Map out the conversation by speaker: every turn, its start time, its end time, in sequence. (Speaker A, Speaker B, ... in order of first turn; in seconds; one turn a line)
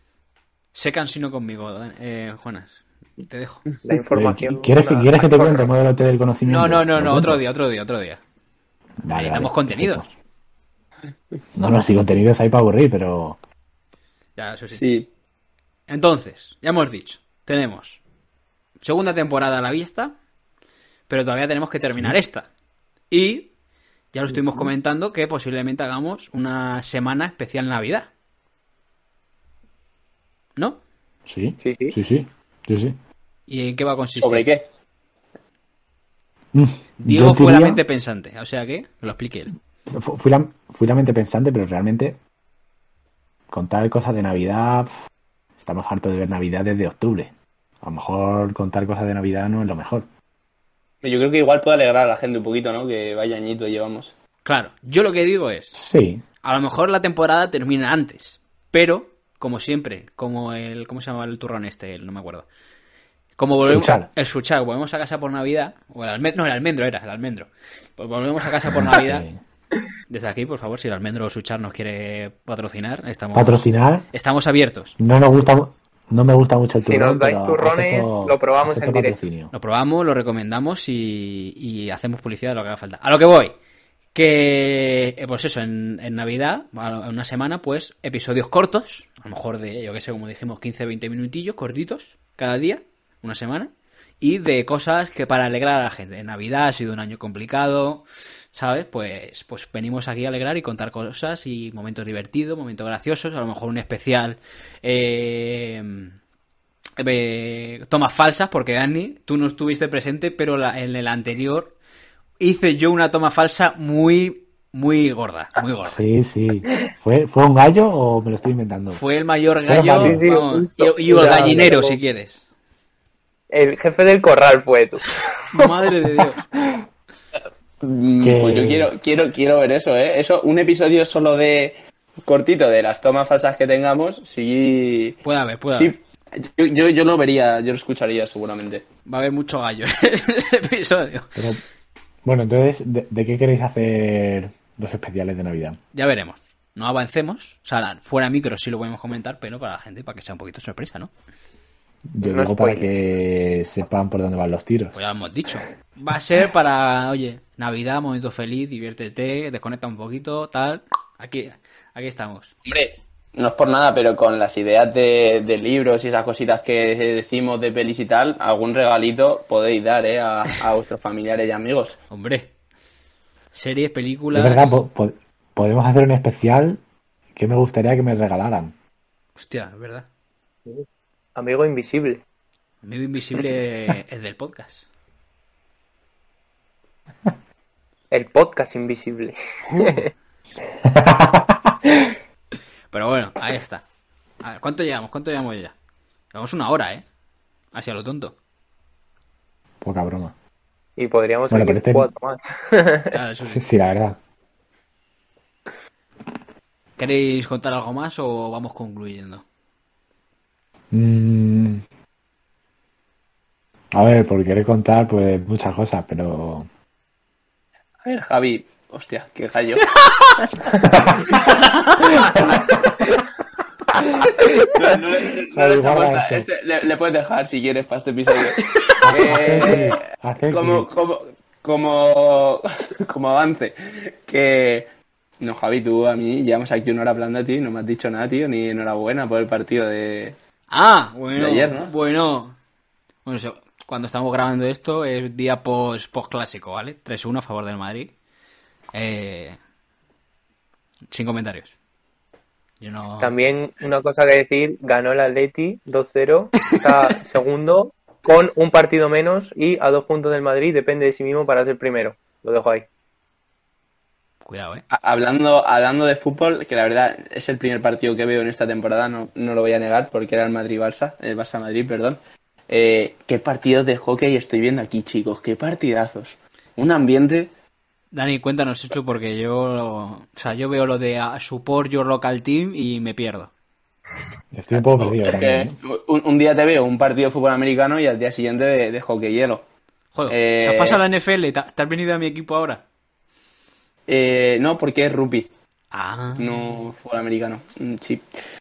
Speaker A: 0.7-3.6
Speaker B: 3.8-5.7
Speaker C: 4.1-7.4
Speaker A: 6.5-8.2
Speaker C: 9.0-10.1
Speaker A: 9.1-10.1
Speaker C: 11.6-13.4
Speaker A: 14.4-14.8
Speaker D: 14.7-15.1
Speaker A: 15.9-18.0
Speaker A: 18.8-20.1
Speaker A: 21.1-22.5
Speaker A: 23.1-23.5
Speaker A: 24.1-28.1
Speaker A: 30.6-30.8
Speaker C: 31.3-33.0
Speaker B: 31.6-32.0
Speaker A: 33.5-34.5
Speaker D: 34.1-34.7
Speaker C: 36.5-37.8
Speaker A: 37.0-39.5
Speaker C: 39.9-42.2
Speaker C: 43.5-44.9
Speaker C: 45.6-47.3
Speaker C: 47.8-50.1
Speaker D: 51.0-54.1
Speaker A: 54.4-55.8
Speaker C: 55.7-56.2
Speaker A: 56.4-62.5
Speaker A: 63.4-69.2
Speaker C: 63.6-64.1
Speaker C: 68.7-69.4
Speaker A: 70.1-74.9
Speaker C: 73.3-74.0
Speaker C: 75.0-79.5
Speaker B: 76.8-79.2
Speaker A: 79.5-83.5
Speaker A: 84.1-106.1
Speaker A: 107.0-111.7
Speaker A: 112.4-116.0
Speaker C: 115.8-119.0
Speaker A: 118.9-122.5
Speaker C: 119.7-120.2
Speaker B: 119.9-122.0
Speaker B: 123.5-125.2
Speaker A: 125.5-126.4
Speaker D: 127.8-138.8
Speaker C: 128.2-128.9
Speaker A: 135.2-135.9
Speaker A: 139.1-141.4
Speaker C: 141.3-141.6
Speaker C: 142.2-145.8
Speaker A: 145.9-151.1
Speaker C: 152.1-154.9
Speaker B: 152.2-152.9
Speaker A: 154.9-162.5
Speaker D: 162.7-172.0
Speaker A: 172.1-172.5
Speaker A: 173.5-174.8
Speaker C: 174.3-176.8
Speaker C: 177.3-178.7
Speaker A: 179.3-180.1
Speaker B: 181.3-182.2
Speaker A: 182.8-184.8
Speaker B: 188.1-190.1
Speaker C: 190.8-192.2
Speaker A: 192.9-193.8
Speaker A: 194.4-195.7
Speaker A: 196.3-197.0
Speaker A: 197.7-198.3
Speaker C: 199.8-200.3
Speaker B: 201.0-203.1
Speaker C: 201.5-202.1
Speaker A: 203.1-203.7
Speaker C: 203.5-204.2
Speaker A: 207.0-209.4
Speaker C: 210.9-211.8
Speaker C: 213.9-216.7
Speaker D: 218.0-219.9
Speaker C: 220.8-221.2
Speaker D: 221.3-222.8
Speaker C: 222.0-222.6
Speaker D: 224.6-230.0
Speaker C: 225.5-226.5
Speaker C: 229.0-230.9
Speaker D: 230.5-234.9
Speaker D: 235.4-240.3
Speaker A: 240.7-242.6
Speaker D: 241.3-241.9
Speaker A: 243.2-248.1
Speaker A: 248.9-249.6
Speaker A: 251.1-251.7
Speaker A: 252.8-253.3
Speaker B: 253.2-262.9
Speaker A: 264.4-264.8
Speaker D: 264.9-277.5
Speaker A: 278.1-283.5
Speaker C: 284.5-285.8
Speaker D: 284.7-289.6
Speaker A: 290.1-292.8
Speaker D: 290.3-291.0
Speaker D: 294.1-295.5
Speaker A: 295.9-296.9
Speaker D: 296.4-298.2